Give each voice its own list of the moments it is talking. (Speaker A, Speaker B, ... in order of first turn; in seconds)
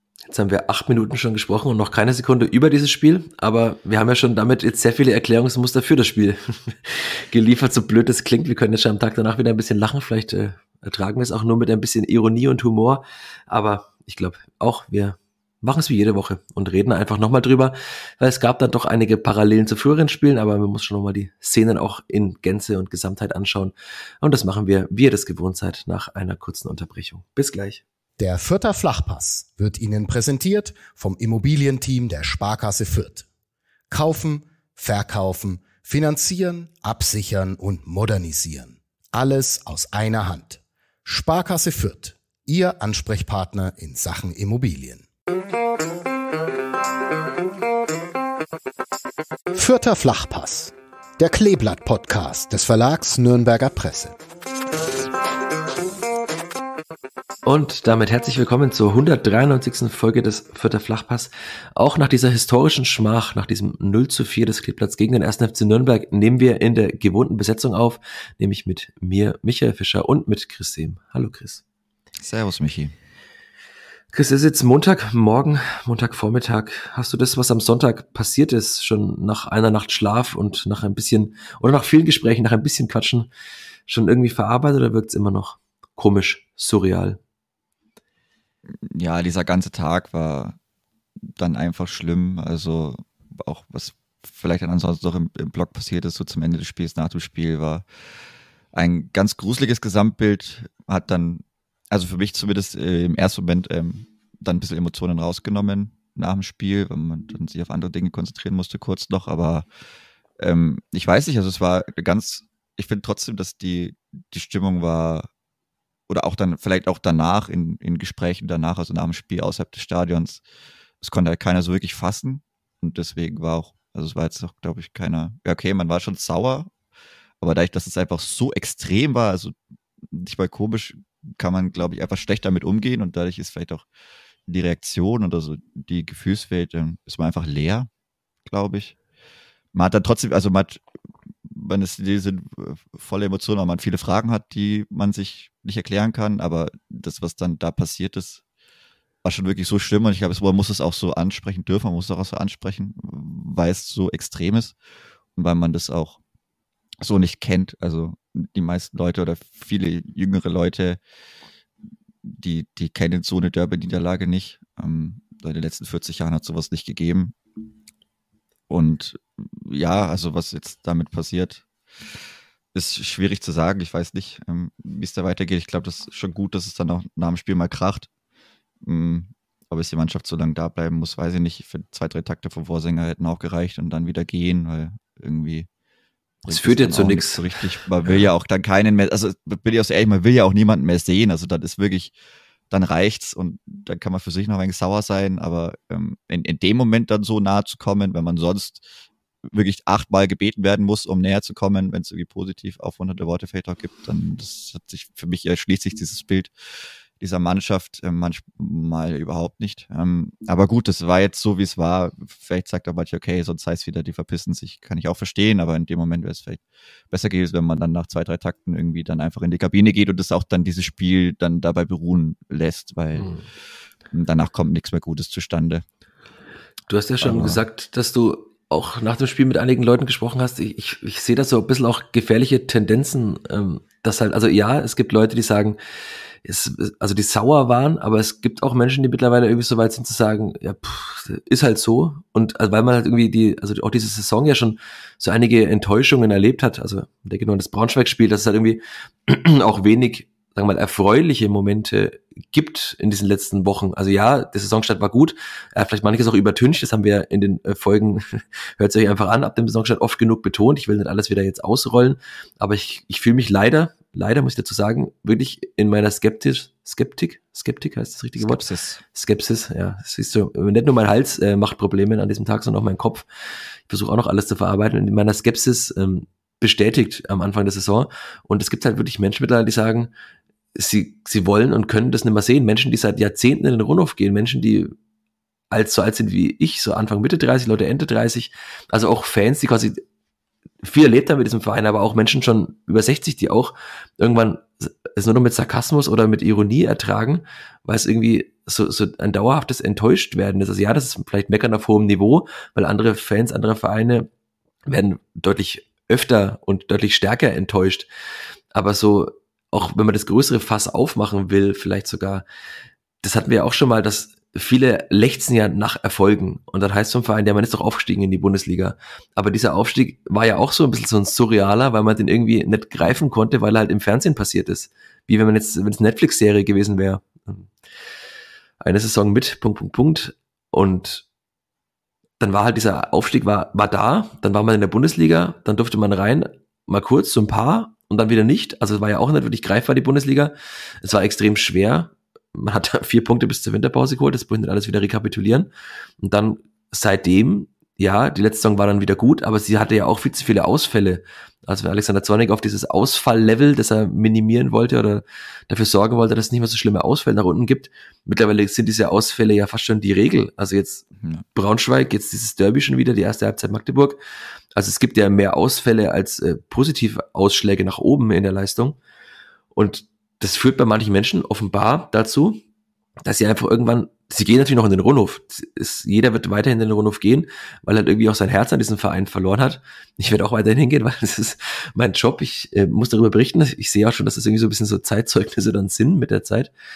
Speaker A: 0.3-27.8, 57.4-71.6, 74.1-83.3, 83.9-87.2, 186.5-187.5, 188.0-188.3, 223.2-223.4, 226.9-235.8, 236.4-273.2, 273.9-280.1, 280.8-284.9, 285.7-290.0, 290.8-304.3, 304.9-308.1, 308.7-312.4, 313.2-327.7, 328.8-331.2, 332.4-345.7, 346.2-364.2, 364.8-369.0, 369.7-372.6, 373.2-386.7
Speaker B: 28.2-33.2, 33.9-45.1, 49.5-54.2
Speaker C: 72.2-72.9, 88.8-90.6, 91.3-97.9, 98.7-109.7, 110.4-115.3, 116.1-120.4, 121.0-126.7, 127.4-129.6, 130.1-133.9, 134.5-137.9, 138.4-138.9, 139.7-140.8, 141.5-148.4, 149.2-154.8, 155.3-156.2, 157.0-161.0, 162.2-167.3, 168.7-171.7, 172.7-178.1, 178.8-185.7, 186.4-192.1, 192.7-198.9, 199.4-206.5, 207.2-223.3, 224.1-225.8, 227.2-227.6, 268.4-269.0